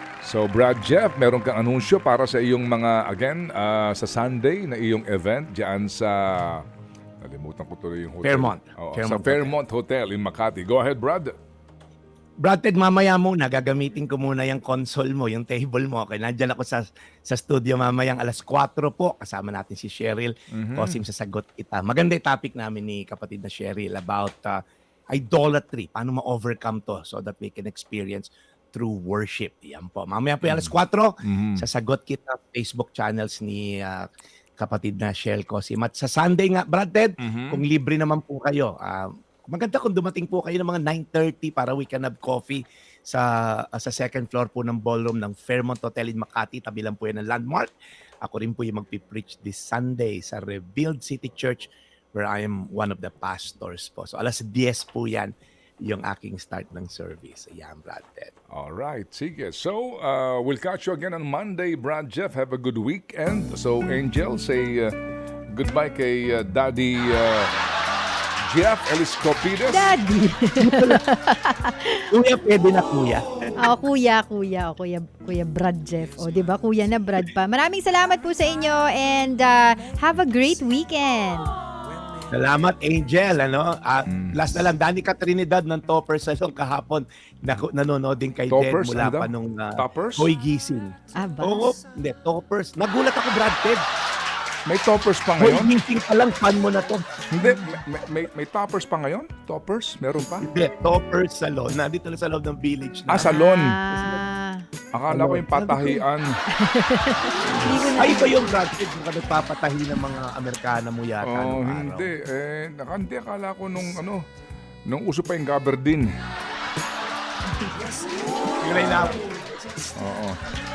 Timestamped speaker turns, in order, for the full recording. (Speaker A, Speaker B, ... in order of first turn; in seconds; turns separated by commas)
Speaker A: 0.2-6.6, Speaker A: 7.2-11.3, Speaker B: 8.2-9.5, Speaker B: 12.4-47.7, Speaker A: 20.5-21.0, Speaker A: 30.4-30.7, Speaker A: 31.2-31.6, Speaker A: 37.2-37.6, Speaker B: 48.2-58.3, Speaker A: 58.5-64.9, Speaker A: 65.5-67.5, Speaker A: 68.5-70.0, Speaker C: 69.7-72.1, Speaker B: 70.6-71.0, Speaker B: 72.1-73.3, Speaker C: 73.6-81.5, Speaker B: 82.3-93.8, Speaker A: 84.1-84.4, Speaker A: 88.5-90.3, Speaker C: 91.1-91.7, Speaker A: 94.7-95.7, Speaker B: 95.4-97.0, Speaker A: 97.3-100.5, Speaker B: 100.4-103.4, Speaker A: 103.1-103.8, Speaker C: 103.3-104.7, Speaker B: 103.9-104.2, Speaker A: 104.9-106.3, Speaker B: 105.1-106.0, Speaker C: 106.5-108.4, Speaker B: 107.5-112.1, Speaker A: 111.2-114.2, Speaker A: 114.9-116.1, Speaker B: 118.6-119.2, Speaker A: 118.8-119.1, Speaker A: 120.0-120.4